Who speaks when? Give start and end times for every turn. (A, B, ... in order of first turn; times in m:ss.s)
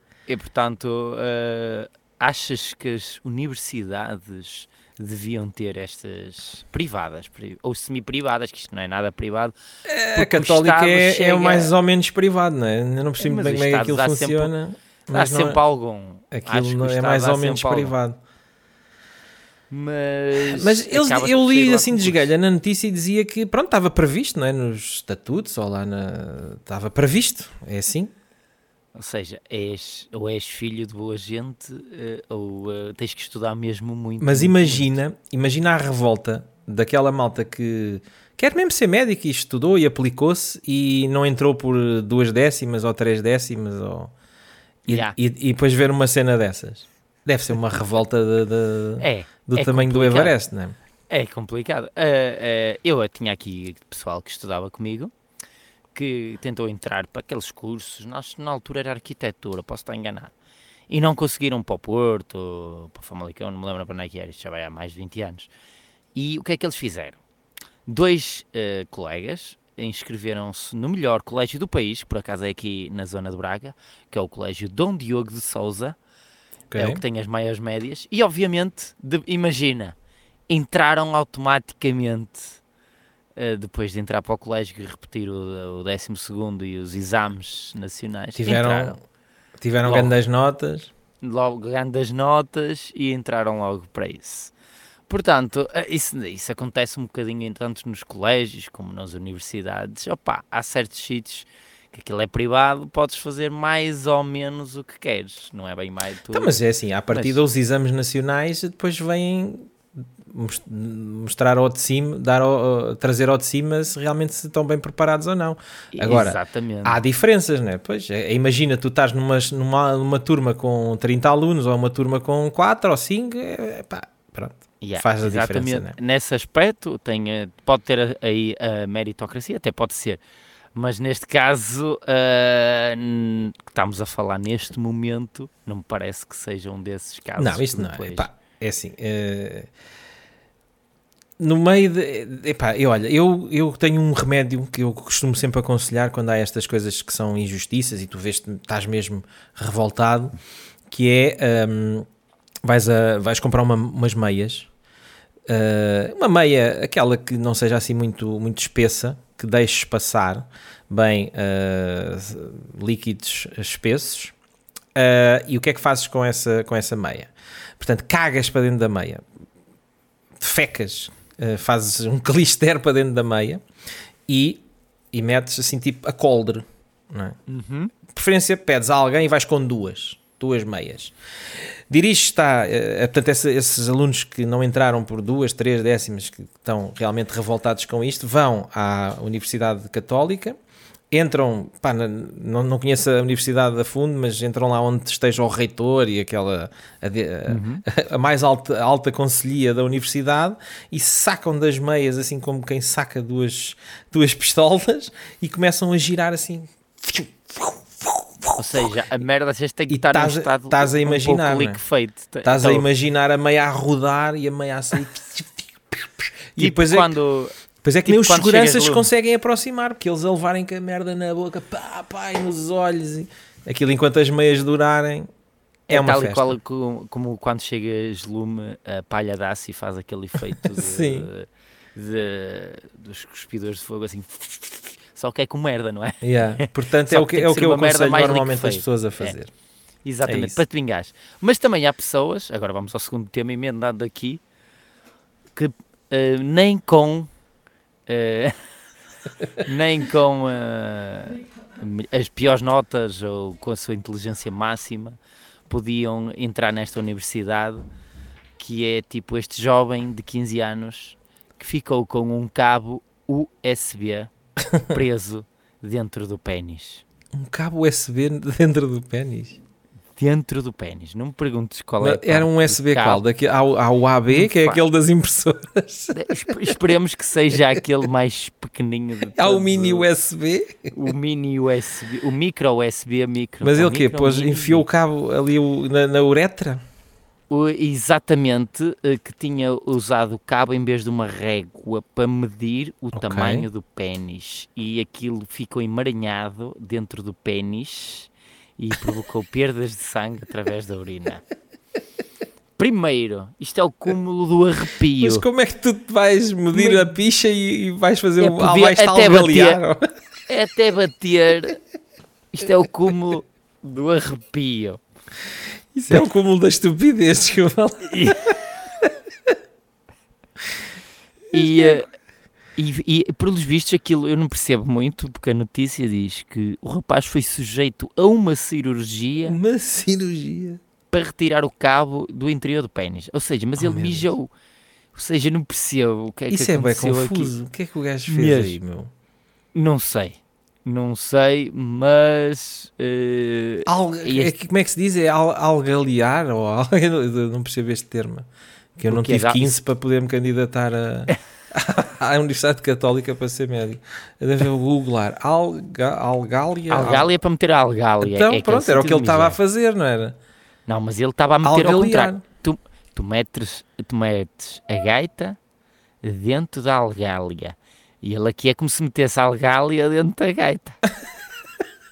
0:00.3-0:09.5 A
0:09.8-0:15.6 B
0:10.2-0:11.7 A
0:13.2-0:14.5 A
0:15.1-0:18.0 A
0:16.3-0:18.2 B
0:19.7-0:22.3 A
0:20.4-0:28.1 B
0:29.0-0:34.9 A
0:34.2-0:44.1 B
0:44.9-0:45.2 A
0:44.9-0:50.8 B
0:49.0-0:50.4 A
0:51.1-0:55.1 A
0:56.0-1:00.3 A
1:00.9-1:05.5 A
1:06.2-1:07.2 A
1:07.9-1:16.0 A
1:16.7-1:17.0 B
1:16.8-1:20.0 A
1:20.5-1:22.6 A
1:23.4-1:29.0 A
1:28.4-1:29.0 B
1:29.6-1:30.9 B
1:29.8-1:30.1 A
1:31.2-1:34.5 A
1:35.1-1:46.5 A
1:46.3-2:06.0 B
1:47.1-1:47.4 A
1:55.9-1:57.0 A
2:04.8-2:10.2 A
2:10.8-2:18.3 A
2:17.4-2:19.7 B
2:21.4-2:30.4 B
2:30.9-2:32.1 B
2:32.6-2:34.7 B
2:35.5-2:44.4 B
2:45.0-2:49.2 B
2:50.4-2:53.6 B
2:54.3-2:57.4 B
2:57.5-2:57.9 A
2:58.1-3:10.6 B
3:11.1-3:28.9 B
3:17.5-3:17.8 A
3:28.6-3:32.9 A
3:29.9-3:31.8 B
3:32.4-3:37.2 B
3:36.6-3:37.5 A
3:37.8-3:45.3 B
3:38.0-3:39.1 A
3:45.9-3:59.4 A
3:45.9-3:46.5 B
3:50.7-3:51.3 B
3:56.2-3:59.5 B
4:00.0-4:04.4 A
4:00.3-4:00.6 B
4:05.6-4:07.3 A
4:08.1-4:08.6 A
4:09.6-4:15.2 A
4:15.7-4:17.8 A
4:18.6-4:24.3 A
4:24.8-4:27.0 A
4:27.3-4:29.6 B
4:30.2-4:33.2 A
4:32.0-4:36.7 B
4:34.3-4:34.8 A
4:36.1-4:40.1 A
4:39.4-4:40.9 B
4:40.9-4:44.9 A
4:43.6-4:46.8 B
4:47.5-5:01.4 A
4:53.2-4:53.7 B
5:02.8-5:05.4 A
5:05.2-5:10.1 B
5:06.8-5:07.1 A
5:08.4-5:09.8 A
5:10.5-5:11.8 A
5:12.5-5:15.0 A
5:16.0-5:18.4 B
5:18.1-5:18.4 A
5:19.0-5:19.5 B
5:21.5-5:22.0 B
5:21.5-5:22.1 A
5:22.8-5:29.6 A
5:29.5-5:30.8 B
5:31.1-5:34.5 A
5:33.8-5:34.3 B
5:35.1-5:37.5 A
5:36.5-5:39.1 B
5:38.3-5:38.8 A
5:39.8-5:44.5 A
5:43.9-5:57.3 B
5:49.1-5:49.8 A
5:56.9-5:59.6 A
5:58.2-6:00.4 B
6:00.9-6:05.6 A
6:01.6-6:02.4 B
6:06.2-6:11.0 A